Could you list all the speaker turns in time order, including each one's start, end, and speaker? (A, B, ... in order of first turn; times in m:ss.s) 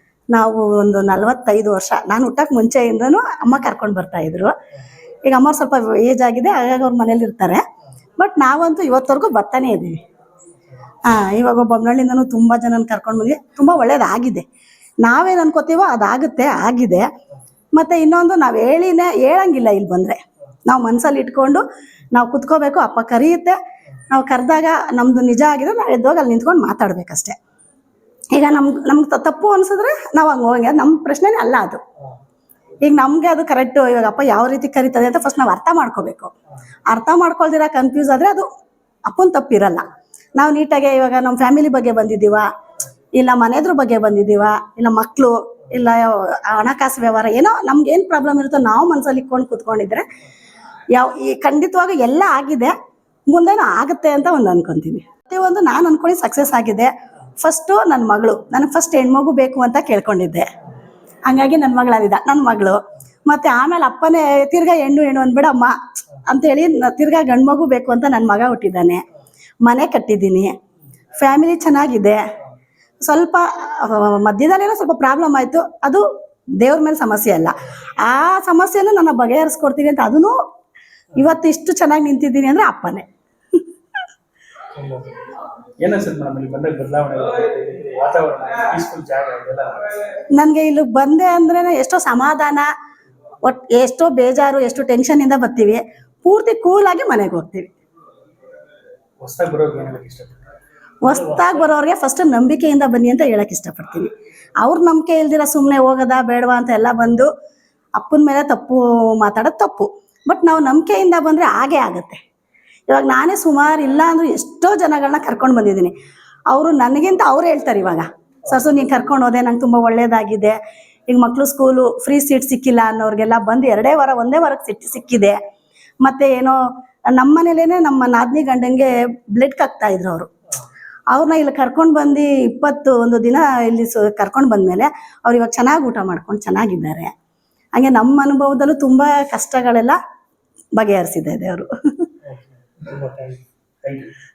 0:00.3-0:04.5 A
0:05.2-0:07.6 A
0:08.2-0:10.0 A
0:11.0-0:14.4 A
0:15.0-0:17.0 A
0:17.8-0:23.6 A
0:24.1-0:27.4 A
0:28.3-0:31.8 A
0:32.8-0:36.3 A
0:36.9-0:38.4 A
0:39.1-0:39.8 A
0:40.4-0:42.5 A
0:43.2-0:50.0 A
0:50.9-0:52.7 A
0:53.3-0:56.9 A
0:57.4-1:00.5 A
1:01.3-1:09.0 A
1:09.6-1:10.5 A
1:11.2-1:12.2 A
1:13.0-1:16.0 A
1:16.6-1:20.4 A
1:21.2-1:23.1 A
1:24.8-1:25.2 B
1:25.8-1:29.9 B
1:30.4-1:32.7 A
1:33.4-1:37.7 A
1:39.2-1:40.4 B
1:41.0-1:47.3 A
1:41.1-1:41.5 B
1:48.0-1:52.2 A
1:52.9-1:55.9 A
1:56.5-2:00.6 A
2:01.1-2:05.4 A
2:06.0-2:06.6 A
2:07.2-2:10.3 A
2:11.1-2:17.1 A
2:17.8-2:20.0 A
2:20.8-2:22.0 A
2:22.3-2:24.1 B